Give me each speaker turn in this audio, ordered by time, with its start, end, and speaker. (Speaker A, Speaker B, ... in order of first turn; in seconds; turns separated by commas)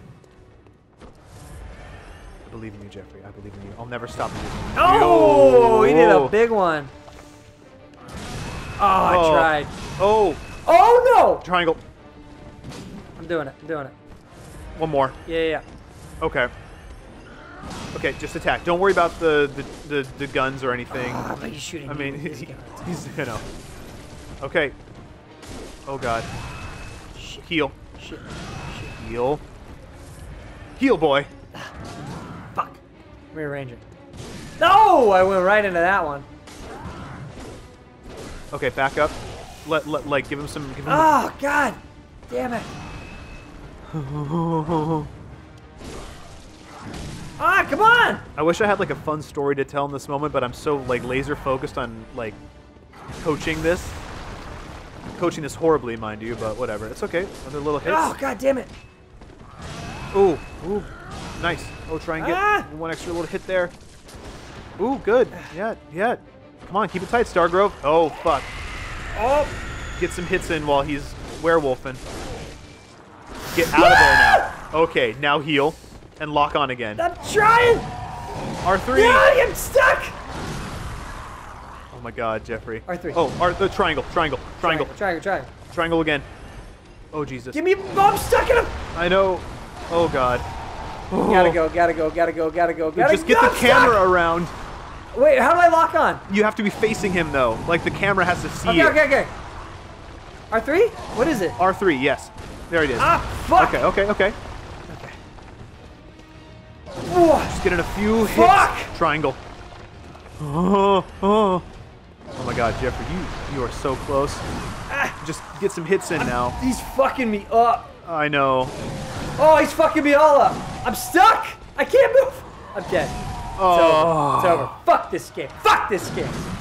Speaker A: 2.5-6.3, Speaker B: 4.8-6.9, Speaker B: 8.8-9.8, Speaker A: 9.0-10.5, Speaker B: 10.6-11.4, Speaker A: 11.4-11.8, Speaker B: 13.2-13.9, Speaker A: 14.8-15.2, Speaker B: 15.3-15.7, Speaker A: 16.2-16.5, Speaker A: 17.9-23.4, Speaker B: 20.9-22.9, Speaker A: 24.4-24.8, Speaker A: 25.9-26.3, Speaker B: 27.1-29.0, Speaker A: 27.4-27.8, Speaker A: 29.0-29.4, Speaker A: 30.8-31.3, Speaker B: 32.5-32.8, Speaker B: 33.3-33.8, Speaker B: 34.6-36.3, Speaker A: 38.5-41.2, Speaker B: 40.9-42.7, Speaker A: 43.9-45.1, Speaker B: 47.4-48.3, Speaker A: 48.4-52.4, Speaker A: 53.1-54.0, Speaker A: 55.2-58.2, Speaker B: 57.8-58.7, Speaker A: 60.1-63.7, Speaker B: 62.2-62.7, Speaker A: 64.8-68.5, Speaker B: 69.1-69.5, Speaker A: 70.0-72.0, Speaker A: 73.5-77.0, Speaker B: 73.7-74.6, Speaker B: 77.0-77.9, Speaker A: 78.6-79.3, Speaker B: 78.9-80.2, Speaker A: 81.9-84.9, Speaker B: 82.9-83.2, Speaker B: 84.6-85.5, Speaker A: 85.7-86.3, Speaker A: 87.1-87.6, Speaker B: 87.5-88.8, Speaker A: 88.9-90.5, Speaker A: 91.1-91.6, Speaker B: 91.2-94.0, Speaker A: 93.0-94.5, Speaker B: 95.1-96.2, Speaker A: 96.3-99.0, Speaker B: 98.7-99.3, Speaker B: 100.5-101.6, Speaker A: 101.6-104.4, Speaker B: 103.0-103.9, Speaker B: 104.9-105.2, Speaker B: 107.1-107.6, Speaker A: 107.5-109.4, Speaker B: 108.2-108.9, Speaker A: 110.4-111.7, Speaker A: 112.3-114.5, Speaker B: 114.9-115.2, Speaker A: 115.2-116.6, Speaker B: 116.2-117.9, Speaker A: 118.0-118.7, Speaker B: 119.4-126.4, Speaker A: 123.6-124.8